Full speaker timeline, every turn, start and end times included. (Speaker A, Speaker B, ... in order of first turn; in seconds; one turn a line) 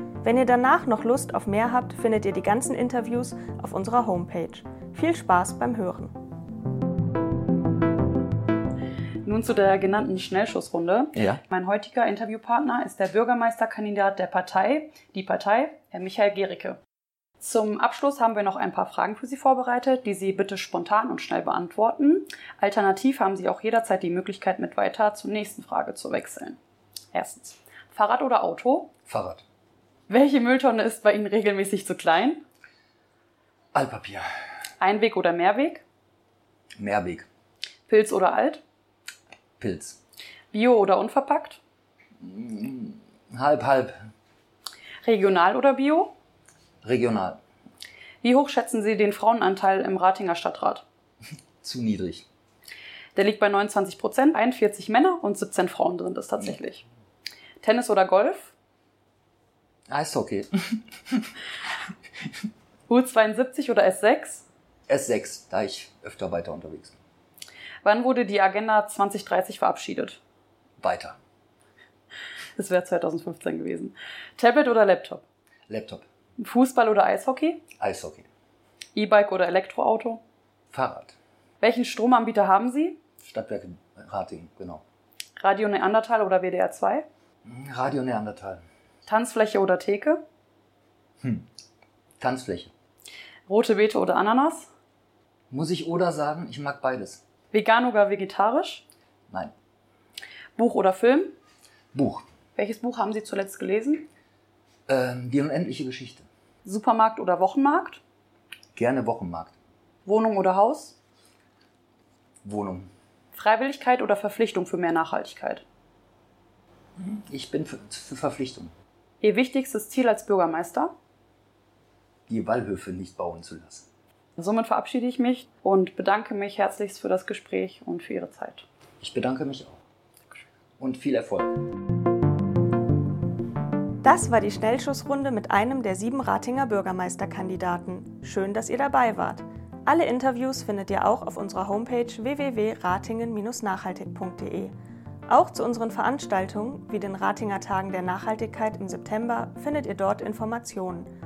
Speaker A: 0.2-6.1
Speaker B: 9.2-16.8
Speaker B: 17.4-26.6
Speaker B: 27.1-28.9
Speaker C: 29.1-29.4
Speaker B: 30.1-32.4
Speaker C: 33.7-34.3
Speaker B: 34.8-35.8
Speaker C: 36.8-37.3
Speaker B: 37.9-38.6
Speaker C: 39.6-40.0
Speaker B: 40.5-41.6
Speaker C: 42.2-44.0
Speaker B: 45.0-46.1
Speaker C: 46.8-47.4
Speaker B: 48.2-50.8
Speaker C: 51.6-52.2
Speaker B: 53.1-56.8
Speaker B: 57.6-58.5
Speaker C: 59.9-61.3
Speaker B: 62.9-64.5
Speaker C: 64.9-67.0
Speaker B: 67.8-70.2
Speaker C: 70.8-71.2
Speaker B: 72.6-75.2
Speaker C: 75.7-76.0
Speaker B: 76.4-77.6
Speaker C: 77.8-78.3
Speaker B: 78.9-80.2
Speaker C: 80.7-81.1
Speaker B: 81.6-83.0
Speaker C: 83.2-84.8
Speaker B: 85.4-87.0
Speaker C: 87.4-88.6
Speaker B: 89.0-90.2
Speaker C: 91.2-91.5
Speaker C: 92.2-92.7
Speaker B: 93.5-94.7
Speaker C: 95.5-97.2
Speaker B: 97.5-98.8
Speaker B: 100.6-101.3
Speaker C: 101.9-102.3
Speaker B: 102.5-104.1
Speaker C: 104.9-106.2
Speaker B: 106.6-108.0
Speaker C: 108.7-109.5
Speaker B: 110.0-111.0
Speaker C: 112.4-112.9
Speaker B: 113.3-115.6
Speaker C: 117.0-118.7
Speaker B: 119.2-120.9
Speaker C: 122.3-123.9
Speaker B: 124.4-128.7
Speaker C: 129.0-129.8
Speaker C: 130.8-131.6
Speaker A: 134.0-144.7
Speaker A: 145.3-151.1